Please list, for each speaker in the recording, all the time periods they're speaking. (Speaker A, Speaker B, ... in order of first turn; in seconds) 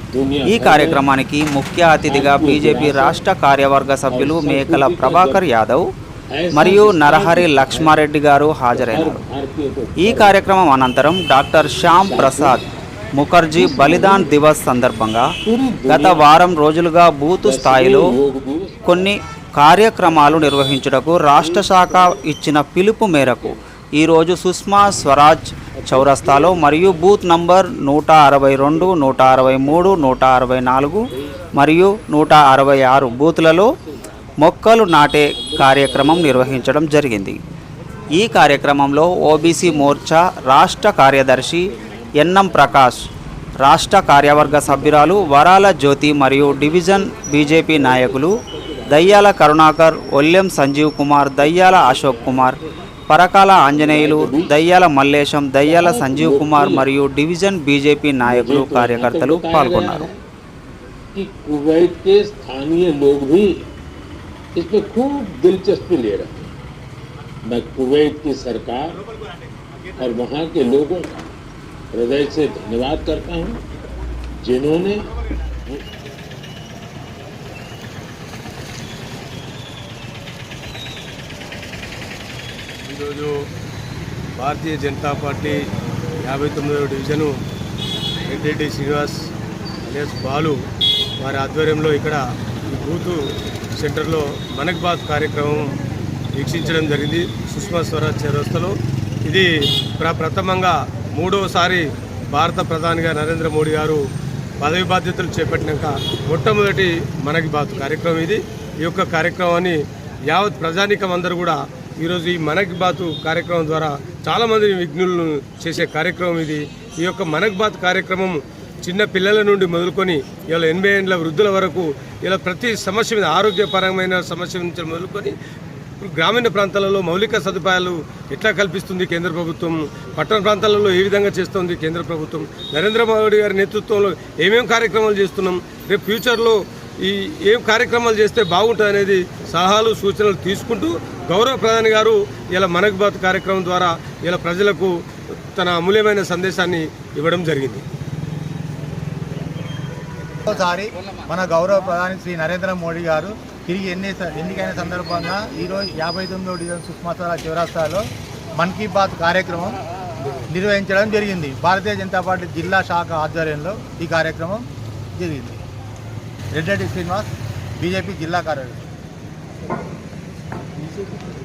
Speaker A: 0.1-1.0, 2.0-3.2, 4.1-5.5, 6.3-8.0, 8.7-10.5, 12.0-12.6, 13.5-14.4, 15.4-16.5, 17.4-19.1, 20.0-20.8, 21.4-22.3, 23.1-23.6, 25.8-27.6, 28.5-30.1, 30.9-31.5, 32.2-36.8, 39.3-42.9, 44.4-45.6, 46.2-49.4, 51.4-52.6, 53.6-54.6, 55.6-56.9, 58.2-60.2, 61.1-63.5, 64.5-66.5, 67.5-69.0, 70.0-71.3, 71.9-73.6, 74.4-75.1
Speaker B: 0.4-5.9, 6.5-9.2, 10.0-12.6, 13.1-15.3, 15.9-18.1, 18.9-31.1, 31.6-33.7, 34.4-37.4, 38.2-43.0, 43.6-52.6, 53.1-60.0
Speaker C: 82.8-83.5, 84.4-85.6, 86.2-87.3, 88.2-89.3, 89.8-90.6, 91.2-93.2, 93.8-95.8, 96.3-104.0, 104.6-125.3, 126.0-144.9, 145.5-147.8
Speaker D: 150.4-158.0, 158.6-159.8, 160.4-164.7, 165.2-165.6, 166.5-168.8